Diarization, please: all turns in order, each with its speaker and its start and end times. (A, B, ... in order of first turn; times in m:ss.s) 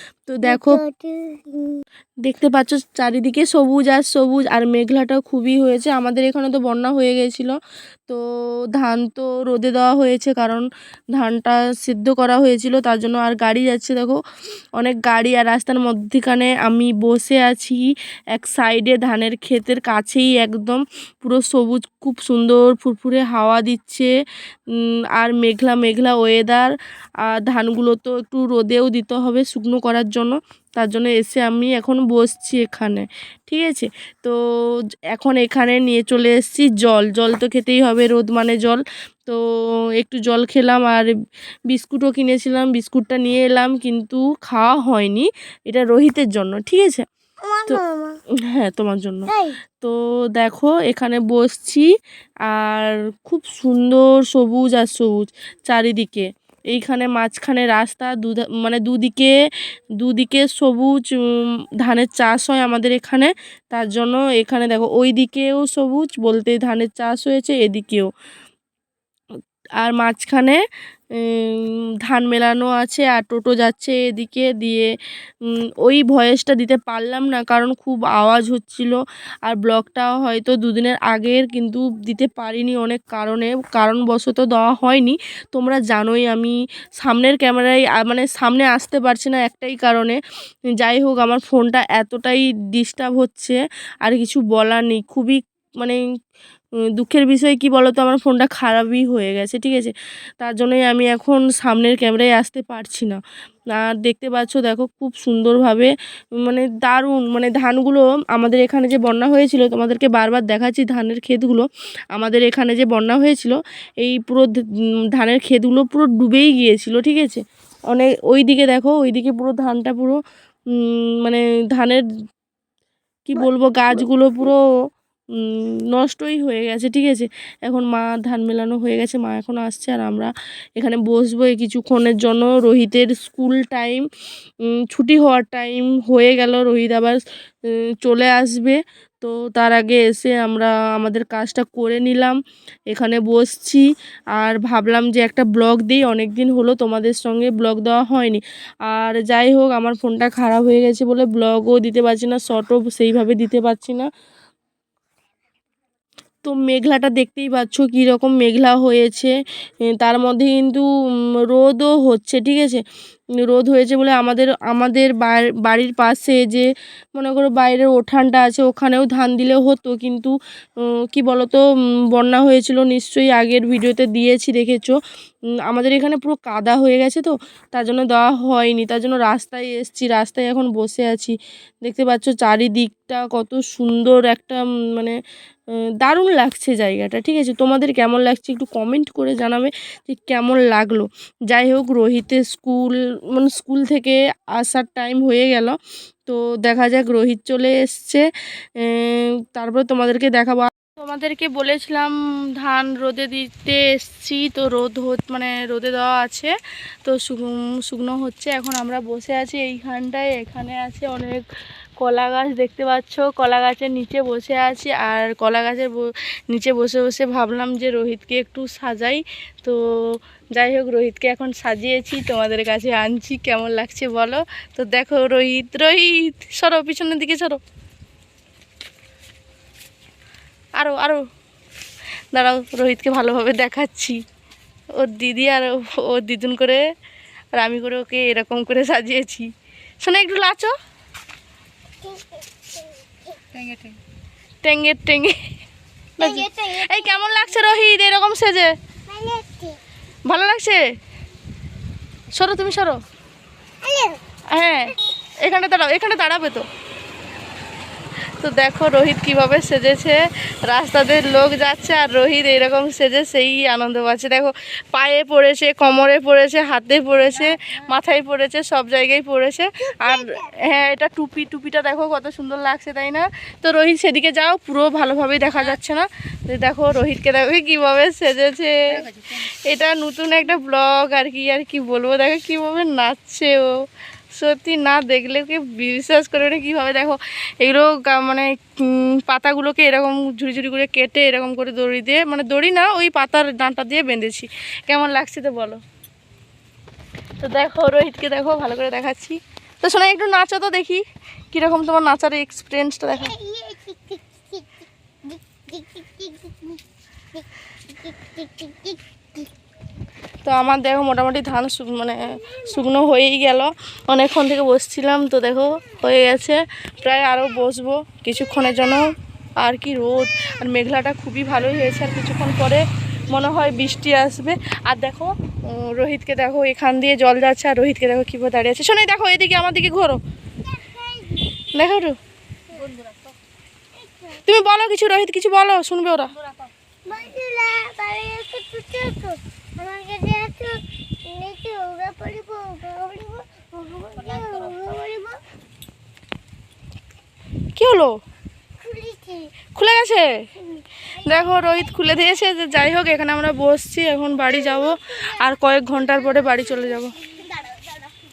0:00.3-0:00.8 A
0:00.4-0:01.8 B
0:02.2-0:07.6 A
0:08.7-0:10.6 A
0:11.2-0:14.2 A
0:14.8-0:24.1 A
0:24.8-0:26.7 A
0:27.2-0:39.4 A
0:40.0-0:41.1 A
0:41.7-0:47.1 A
0:47.4-0:48.2 B
0:48.5-0:51.9 A
0:49.3-0:49.6 B
0:52.5-0:59.4 A
1:00.0-1:08.1 A
1:09.8-1:10.6 A
1:11.2-1:14.9 A
1:15.8-1:30.2 A
1:30.8-1:36.0 A
1:37.0-1:43.2 A
1:43.7-2:00.2 A
2:00.8-2:02.0 A
2:03.3-2:04.6 A
2:05.4-2:14.1 A
2:14.9-2:17.2 A
2:17.7-2:22.4 A
2:22.9-2:23.8 A
2:24.4-2:34.1 A
2:36.4-2:39.3 A
2:40.0-2:40.9 A
2:41.5-2:42.8 A
2:43.4-2:50.3 A
2:51.1-2:51.6 A
2:52.1-2:55.0 A
2:55.7-3:05.2 A
3:06.0-3:15.8 A
3:16.3-3:18.2 A
3:18.8-3:26.5 A
3:27.0-3:31.4 A
3:32.0-3:47.6 A
3:50.8-3:51.2 A
3:52.3-3:54.2 A
3:55.0-3:56.8 A
3:57.6-3:59.5 A
4:00.0-4:00.7 A
4:02.0-4:03.4 B
4:04.6-4:05.4 A
4:06.2-4:07.0 B
4:06.2-4:08.7 A
4:09.1-4:09.8 B
4:10.3-4:10.8 A
4:12.3-4:13.0 A
4:13.8-4:14.2 B
4:14.5-4:16.7 A
4:18.4-4:43.7 A
4:29.9-4:30.4 B
4:44.3-4:55.8 A
4:57.4-5:03.4 A
5:03.2-5:06.8 B
5:07.4-5:09.5 B
5:10.4-5:30.2 A
5:12.4-5:12.8 B
5:30.6-5:31.5 B
5:31.7-5:32.2 A
5:34.0-5:34.4 B
5:34.5-5:36.4 A
5:37.1-5:45.4 B
5:47.8-5:48.2 A
5:48.8-5:49.6 B
5:49.8-5:50.4 A
5:51.2-5:51.9 B
5:51.2-5:57.2 A
5:57.6-5:58.1 B